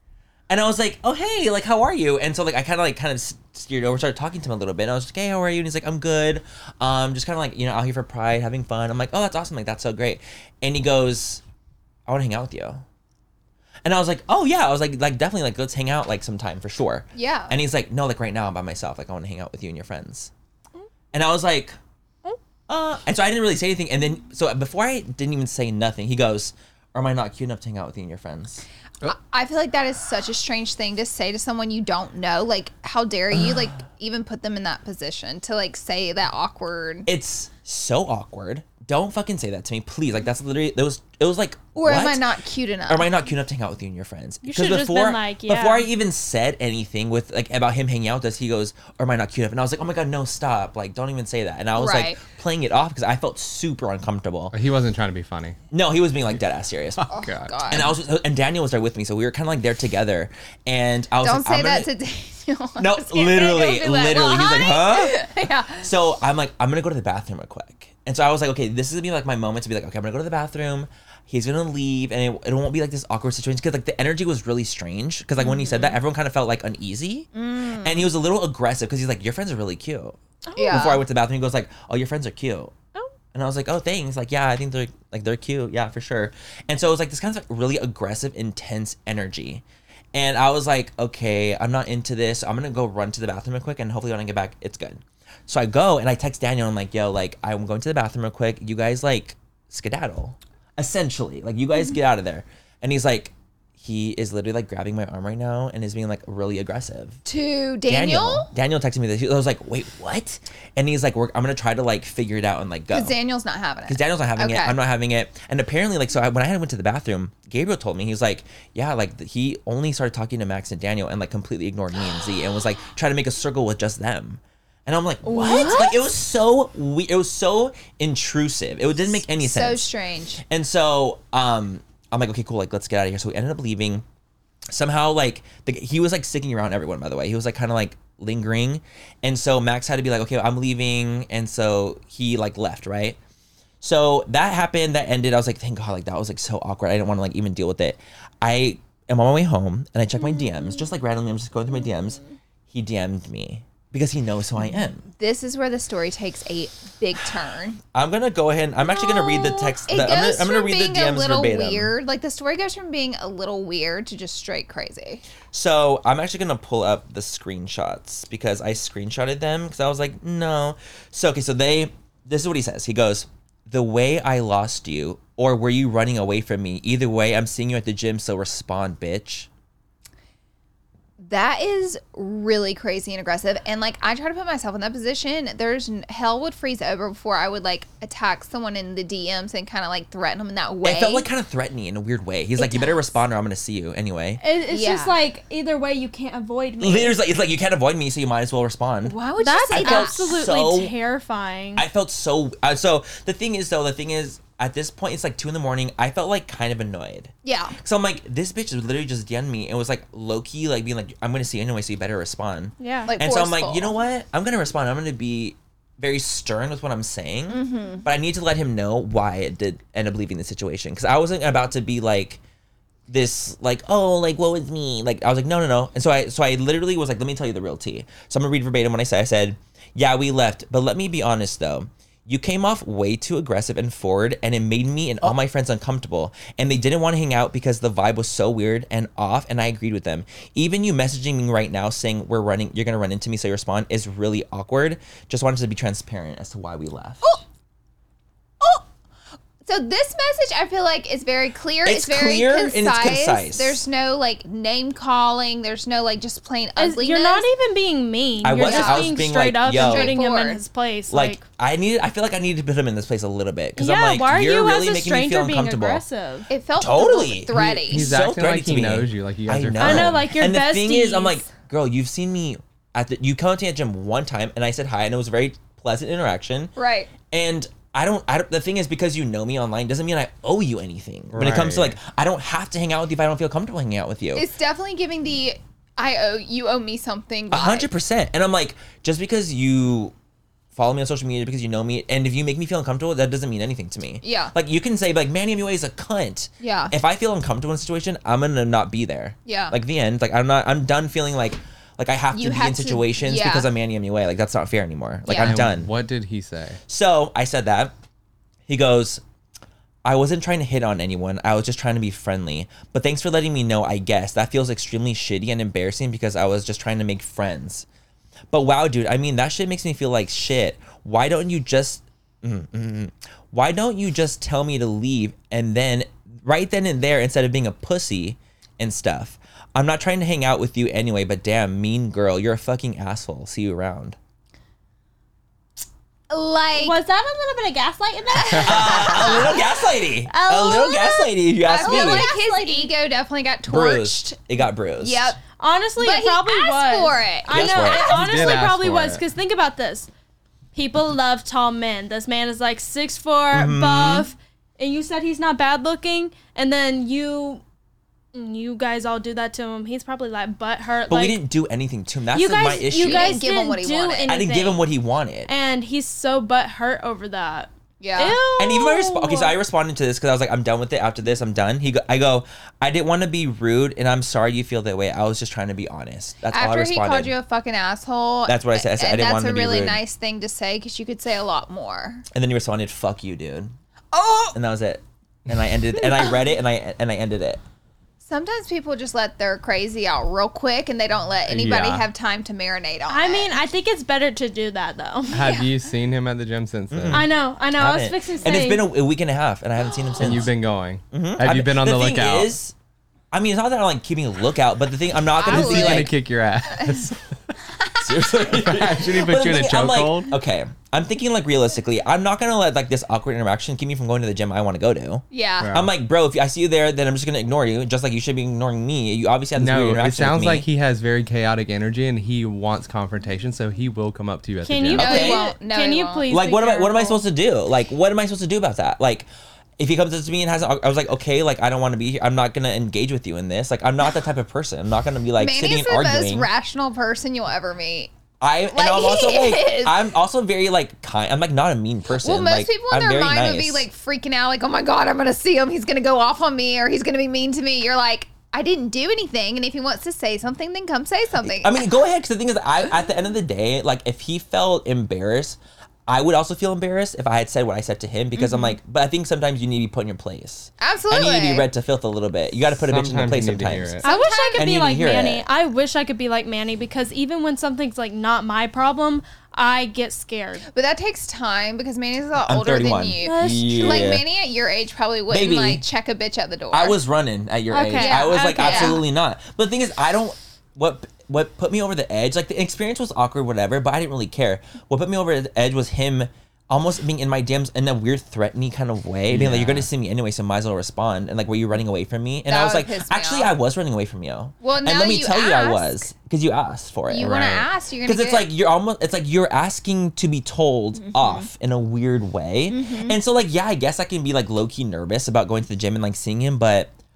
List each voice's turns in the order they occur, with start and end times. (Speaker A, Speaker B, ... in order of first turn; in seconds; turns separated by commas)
Speaker A: 0.5-11.4, Speaker A: 12.1-12.8, Speaker A: 13.8-20.3, Speaker B: 17.1-17.6, Speaker A: 21.1-21.8, Speaker A: 22.7-28.6, Speaker B: 29.1-37.1, Speaker A: 37.1-42.3, Speaker B: 41.8-43.1, Speaker A: 42.9-54.5, Speaker C: 44.4-45.9, Speaker B: 51.8-52.2, Speaker D: 54.5-55.6, Speaker A: 55.7-57.1, Speaker D: 57.0-57.9, Speaker B: 57.1-58.0, Speaker A: 57.7-61.9, Speaker B: 61.2-65.9, Speaker A: 62.8-80.2, Speaker B: 75.4-76.0, Speaker B: 77.3-78.1, Speaker C: 80.5-81.0, Speaker B: 80.6-81.0, Speaker A: 80.7-82.7, Speaker A: 83.3-107.2, Speaker B: 107.2-108.5, Speaker A: 107.9-113.1, Speaker B: 112.9-114.8, Speaker A: 113.9-129.9, Speaker B: 125.2-126.0, Speaker B: 129.0-130.4, Speaker A: 130.4-134.1, Speaker A: 134.7-143.2, Speaker A: 143.8-155.1, Speaker C: 150.2-150.8, Speaker B: 155.2-157.8, Speaker A: 157.9-161.9, Speaker C: 158.9-159.8, Speaker B: 159.9-165.2, Speaker A: 165.5-179.5, Speaker B: 181.2-191.3, Speaker A: 190.8-194.4, Speaker B: 192.6-193.1, Speaker C: 194.4-197.2, Speaker B: 194.7-195.2, Speaker A: 196.8-199.2, Speaker B: 199.1-200.2, Speaker C: 199.4-201.8, Speaker A: 199.7-200.9, Speaker A: 201.8-222.4, Speaker B: 207.4-207.7, Speaker C: 212.8-213.1, Speaker B: 213.1-214.0, Speaker B: 217.5-218.1, Speaker A: 223.1-247.4, Speaker B: 249.6-257.5, Speaker A: 251.8-253.8, Speaker C: 256.8-261.4, Speaker A: 258.4-260.1, Speaker B: 258.6-260.6, Speaker A: 261.1-266.0, Speaker C: 263.8-266.5, Speaker B: 266.5-268.1, Speaker A: 266.8-276.7, Speaker D: 267.5-270.3, Speaker C: 269.8-271.4, Speaker B: 276.8-277.1, Speaker A: 277.3-284.5, Speaker D: 281.3-282.0, Speaker B: 284.4-287.9, Speaker A: 287.5-290.1, Speaker A: 290.7-305.9, Speaker B: 294.2-294.5, Speaker B: 296.6-296.9, Speaker B: 299.5-299.7, Speaker B: 302.3-303.7, Speaker B: 305.3-305.6, Speaker D: 305.3-306.8, Speaker A: 306.9-307.9, Speaker A: 308.7-309.2, Speaker A: 310.1-317.9, Speaker A: 318.5-334.2, Speaker B: 336.3-337.0, Speaker C: 336.8-339.7, Speaker B: 338.4-339.6, Speaker A: 338.6-342.3, Speaker C: 340.3-342.9, Speaker B: 341.6-344.4, Speaker A: 343.7-345.4, Speaker B: 345.0-345.4, Speaker C: 345.6-350.1, Speaker B: 346.0-347.9, Speaker A: 347.5-348.2, Speaker D: 347.9-349.2, Speaker C: 350.7-357.6, Speaker A: 353.5-354.3, Speaker C: 358.3-361.4, Speaker A: 361.1-363.4, Speaker C: 362.3-364.9, Speaker B: 363.0-364.3, Speaker A: 364.3-365.5, Speaker C: 365.5-369.6, Speaker B: 368.0-368.4, Speaker A: 368.6-377.3, Speaker B: 376.5-382.2, Speaker A: 378.5-380.0, Speaker A: 382.3-383.8, Speaker B: 384.1-384.6, Speaker A: 384.5-387.6, Speaker B: 388.2-393.5, Speaker D: 391.5-392.1, Speaker C: 393.1-395.4, Speaker D: 395.3-397.3, Speaker B: 395.4-395.7, Speaker A: 396.9-400.5, Speaker C: 397.1-398.9, Speaker D: 400.2-402.6, Speaker A: 401.1-402.7, Speaker A: 403.3-406.1, Speaker B: 405.4-406.1, Speaker D: 405.5-407.4, Speaker B: 406.7-407.1, Speaker A: 408.0-420.7, Speaker D: 408.5-410.3, Speaker B: 415.3-415.7, Speaker D: 415.6-415.9, Speaker D: 419.6-425.3, Speaker C: 424.6-427.2, Speaker A: 424.9-425.4, Speaker B: 425.0-426.2, Speaker A: 426.3-429.3, Speaker A: 429.8-436.5, Speaker B: 435.4-438.1, Speaker A: 438.4-443.9, Speaker B: 438.7-440.0, Speaker B: 442.1-451.8, Speaker A: 451.4-465.4, Speaker B: 458.4-458.8, Speaker B: 460.8-461.7, Speaker D: 462.8-464.1, Speaker B: 464.0-464.7, Speaker C: 464.0-470.6, Speaker B: 470.7-477.0, Speaker A: 472.4-474.2, Speaker C: 473.2-474.1, Speaker A: 475.3-475.8, Speaker A: 476.7-506.9, Speaker C: 477.7-479.1, Speaker B: 477.9-479.0, Speaker D: 489.3-489.9, Speaker B: 492.5-493.5, Speaker B: 494.6-496.1, Speaker B: 497.1-498.5, Speaker B: 501.0-501.5, Speaker B: 502.7-503.2